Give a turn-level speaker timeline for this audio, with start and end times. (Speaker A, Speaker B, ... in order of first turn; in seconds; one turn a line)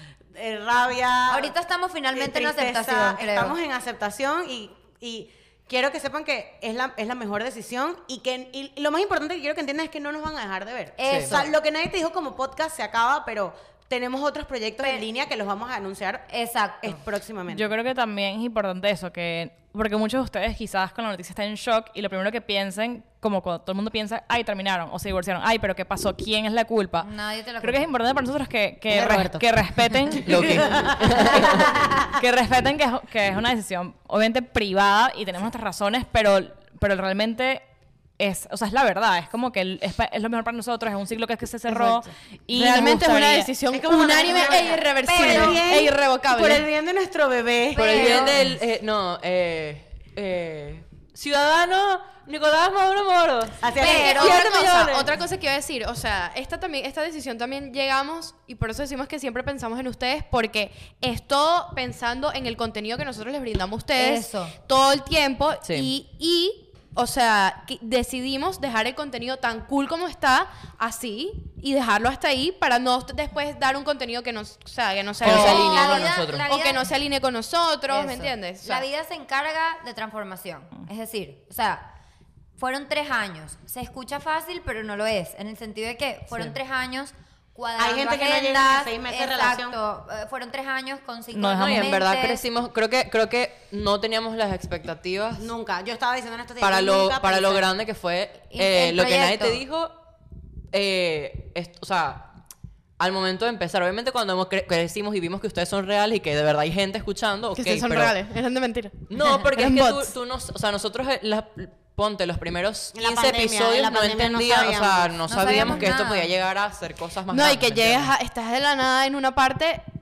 Speaker A: 0.3-1.5
Speaker B: 1.3-3.5
Speaker A: 2.1-16.2
Speaker B: 11.0-11.5
Speaker C: 11.1-11.4
Speaker B: 14.8-15.1
Speaker B: 16.3-17.0
Speaker A: 16.8-17.7
Speaker D: 17.5-27.1
Speaker B: 27.0-27.9
Speaker D: 27.6-30.7
Speaker A: 28.9-29.4
Speaker A: 30.2-31.9
Speaker C: 30.2-31.7
Speaker D: 31.3-37.6
Speaker D: 38.2-43.5
Speaker E: 41.7-46.6
Speaker A: 43.7-48.4
Speaker B: 44.1-45.6
Speaker B: 47.7-48.4
Speaker C: 47.8-55.0
Speaker A: 53.6-55.0
Speaker B: 53.8-54.7
Speaker E: 53.8-78.8
Speaker B: 64.0-64.5
Speaker C: 65.6-65.9
Speaker C: 75.2-76.5
Speaker B: 75.2-76.9
Speaker B: 77.9-81.9
Speaker B: 82.6-92.4
Speaker A: 87.8-89.8
Speaker C: 91.3-95.5
Speaker D: 91.5-91.8
Speaker A: 95.4-97.7
Speaker C: 96.6-99.9
Speaker B: 98.5-99.6
Speaker C: 100.7-102.3
Speaker C: 103.0-108.2
Speaker E: 107.5-110.1
Speaker C: 109.1-118.1
Speaker A: 112.9-115.9
Speaker B: 115.3-116.3
Speaker E: 117.3-119.8